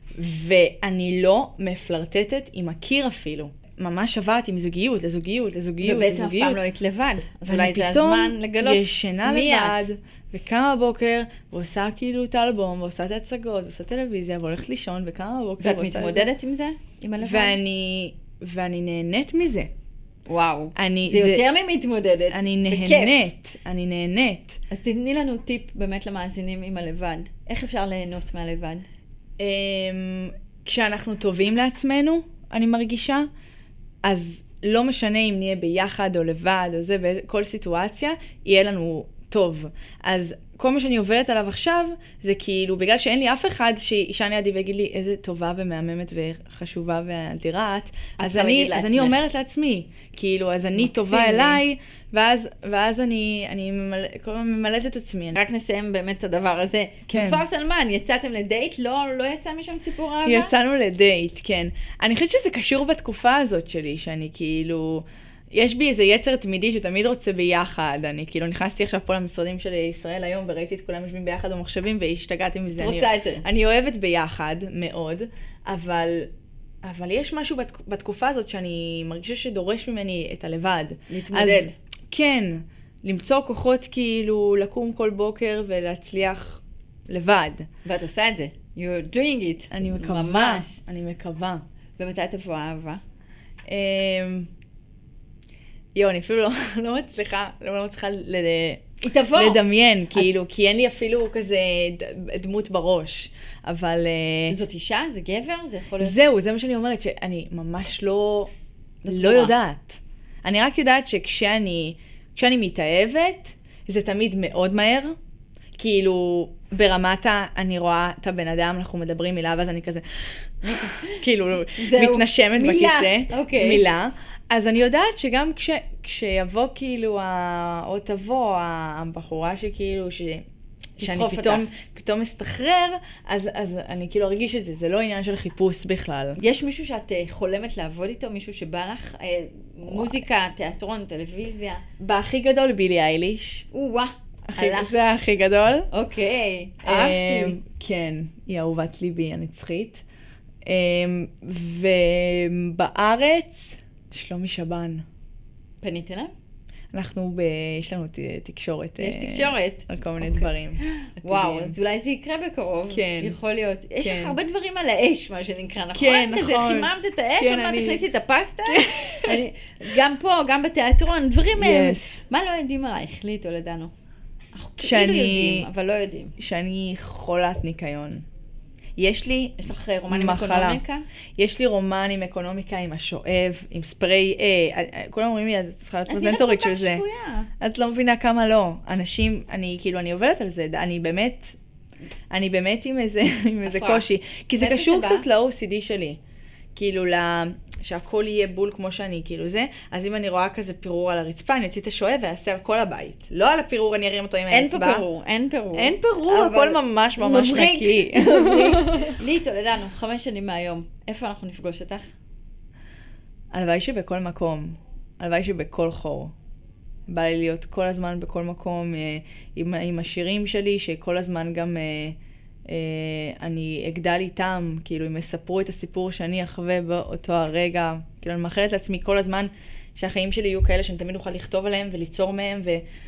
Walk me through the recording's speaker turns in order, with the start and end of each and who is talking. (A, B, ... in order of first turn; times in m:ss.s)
0:00.1-0:06.6 A
0:05.8-0:09.8 B
0:07.5-0:16.3 A
0:15.6-0:17.6 B
0:17.2-0:19.7 A
0:20.3-0:23.3 B
0:20.7-0:21.5 A
0:22.3-0:24.6 A
0:24.7-0:28.8 B
0:29.4-0:33.3 A
0:34.0-0:55.4 A
0:48.2-0:49.2 B
0:50.8-0:51.6 B
0:55.3-1:00.5 B
0:57.1-0:57.4 A
1:00.2-1:16.3 A
1:12.8-1:13.4 B
1:16.8-1:27.7 A
1:21.1-1:21.7 B
1:27.8-1:30.8 B
1:29.7-1:31.6 A
1:32.0-1:33.0 B
1:33.7-1:34.5 A
1:36.0-1:44.6 A
1:39.0-1:39.6 B
1:44.5-1:46.2 B
1:46.0-1:48.5 A
1:49.0-1:49.5 B
1:49.1-1:55.1 A
1:55.8-2:10.4 A
2:00.6-2:03.8 B
2:11.0-2:16.4 A
2:11.0-2:11.7 B
2:16.4-2:21.8 B
2:22.0-2:23.7 A
2:23.7-2:24.9 B
2:24.5-2:25.9 A
2:25.9-2:27.6 B
2:26.8-2:30.0 A
2:30.6-2:35.0 A
2:35.8-2:36.3 B
2:36.9-2:41.7 A
2:39.0-2:53.9 B
2:42.9-2:43.4 A
2:44.0-2:44.4 A
2:45.9-2:48.0 A
2:48.7-2:49.4 A
2:51.6-2:52.2 A
2:54.5-2:56.3 B
2:54.8-2:55.7 A
2:56.4-2:58.2 A
2:59.0-3:00.8 A
2:59.6-3:01.0 B
3:01.4-3:07.0 A
3:06.1-3:07.5 B
3:07.6-3:11.6 A
3:12.3-3:16.2 A
3:13.6-3:15.2 B
3:16.7-3:25.0 A
3:24.5-3:32.1 B
3:25.7-3:29.2 A
3:33.5-3:36.3 A
3:37.1-3:52.8 A